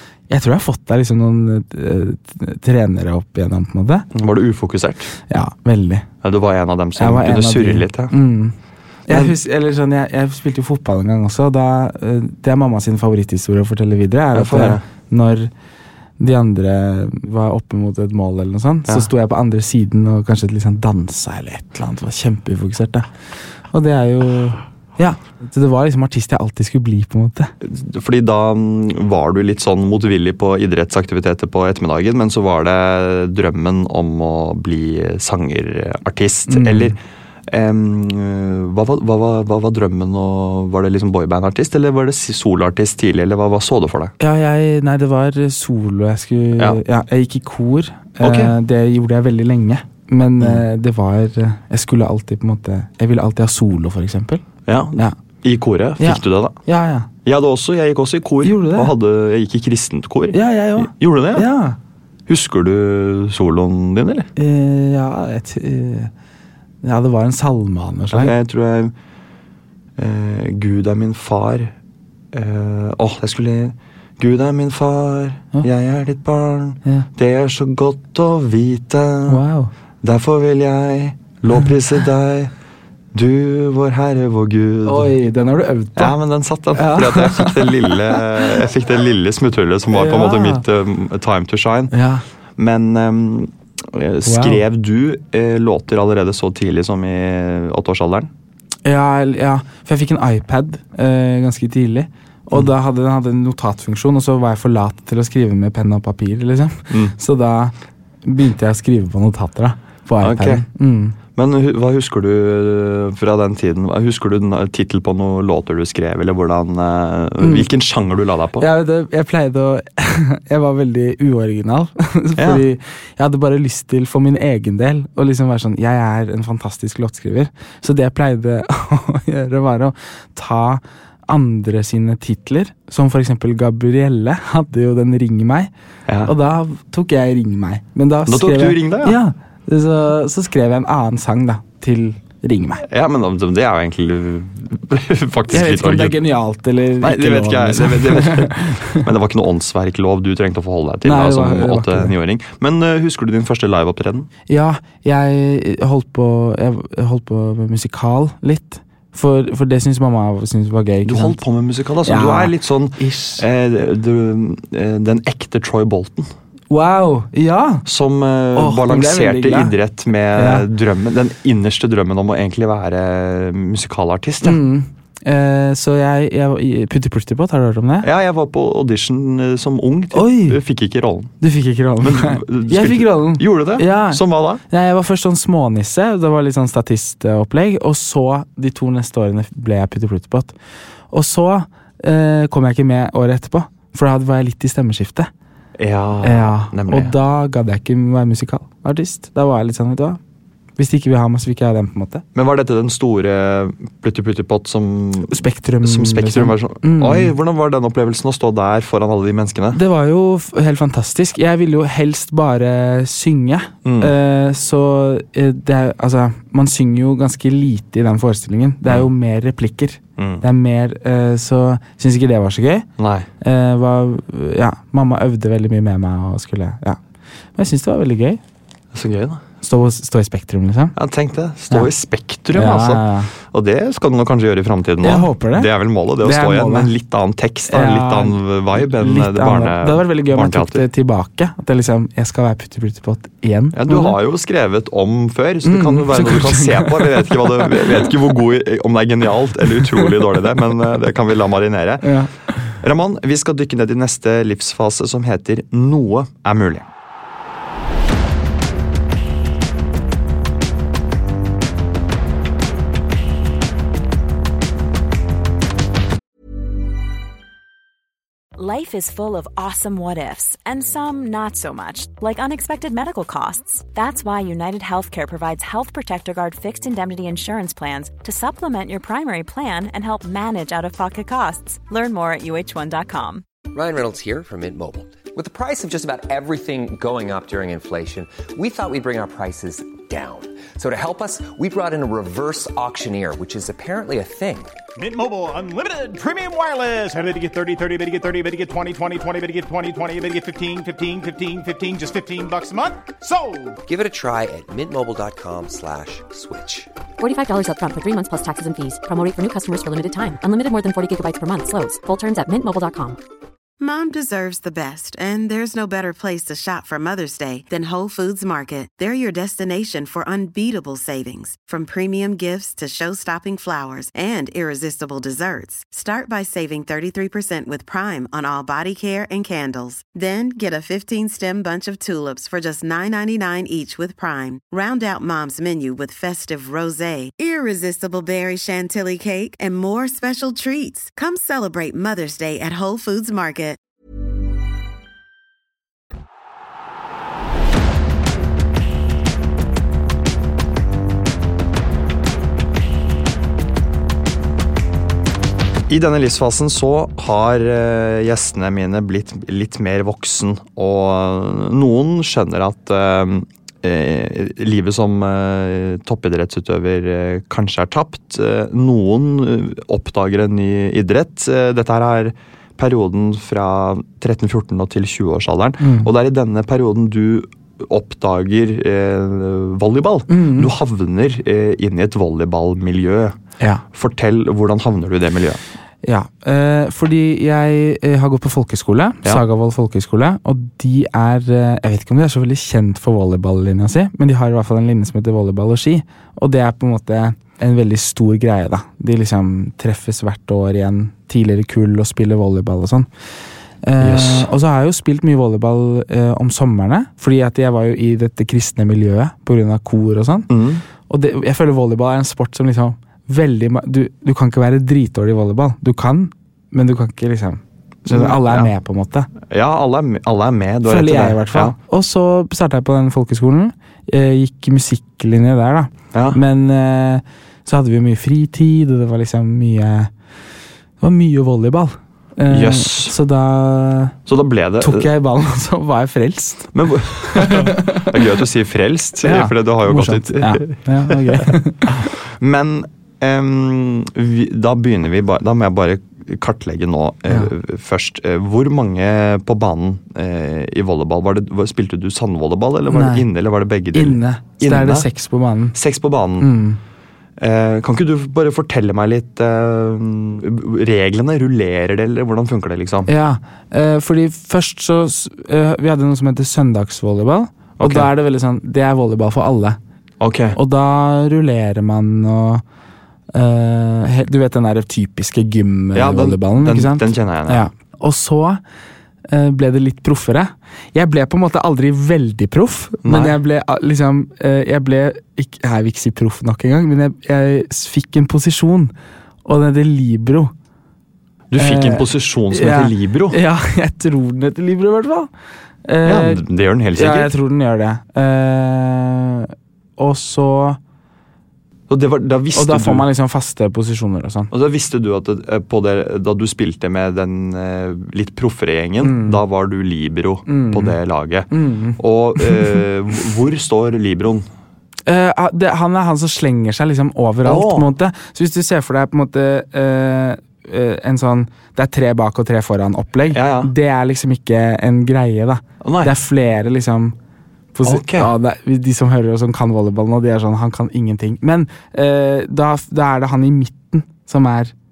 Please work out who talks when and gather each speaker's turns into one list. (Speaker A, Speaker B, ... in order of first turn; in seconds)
Speaker A: 0.3-4.1, 5.3-6.1, 7.0-8.5, 9.1-15.5, 16.2-23.1, 23.7-27.5, 36.5-37.0, 44.2-55.1, 56.0-57.1, 58.4-58.9, 60.3-61.8, 64.3-66.1, 66.8-68.3, 79.3-79.7, 84.8-86.2, 86.7-88.6, 89.9-90.6, 91.9-92.2, 94.2-94.6, 98.8-111.2, 117.4-117.7, 118.6-135.7, 136.2-142.8, 145.5-149.0, 151.0-152.1, 154.5-161.4, 162.0-163.4, 166.7-167.8, 168.5-169.7, 170.3-170.7, 174.4-178.1, 180.1-180.6, 181.4-190.5, 191.1-195.3, 196.2-200.2, 200.8-202.2, 205.3-207.3, 209.7-222.9, 223.4-227.0, 227.6-228.4, 229.6-230.9, 232.5-233.3, 235.0-235.7, 236.2-236.9, 237.7-244.1, 245.6-248.2, 249.8-250.1, 252.0-252.7, 375.8-376.1, 380.3-380.7, 386.0-403.1, 403.8-410.5, 411.1-419.3, 420.8-430.1, 431.0-434.2, 434.8-438.2, 439.2-442.1, 452.9-453.2, 453.9-455.8, 456.4-456.8, 463.1-469.8, 470.5-472.6, 473.3-478.6, 479.3-488.9, 489.4-490.5, 491.6-495.3, 495.8-500.8, 502.5-504.5, 509.0-509.4, 510.5-511.0, 511.5-512.8, 515.0-527.1, 527.7-534.7
Speaker B: 4.1-5.1, 6.2-8.1, 9.1-9.3, 14.3-14.8, 27.6-44.1, 48.2-48.5, 54.7-56.6, 57.2-61.5, 62.3-64.3, 68.1-68.9, 70.0-71.7, 72.3-79.4, 80.0-82.5, 83.1-85.1, 86.0-91.9, 92.6-98.3, 110.2-110.6, 111.3-118.7, 122.4-122.6, 136.1-136.3, 138.2-139.2, 142.8-146.2, 147.0-154.3, 161.0-166.3, 167.8-174.6, 178.0-181.3, 182.0-184.6, 195.8-197.1, 202.3-209.8, 213.8-214.1, 220.2-220.4, 223.0-223.3, 228.9-229.4, 230.9-240.8, 243.7-252.2, 252.8-256.9, 355.9-383.4, 383.9-385.6, 404.0-404.5, 410.5-410.8, 418.1-418.7, 419.5-421.8, 426.1-426.4, 432.5-433.1, 434.3-435.1, 436.7-455.1, 455.7-456.5, 457.4-463.1, 467.8-468.1, 470.2-470.6, 475.9-477.7, 483.0-483.4, 491.5-493.4, 496.0-497.3, 501.9-503.1, 504.5-514.5, 517.4-517.9, 523.3-523.7, 525.8-526.1, 527.8-528.3
Speaker C: 268.6-283.4
Speaker D: 283.7-294.7, 303.8-306.9
Speaker E: 294.9-303.8
Speaker F: 307.2-313.2
Speaker G: 313.8-343.8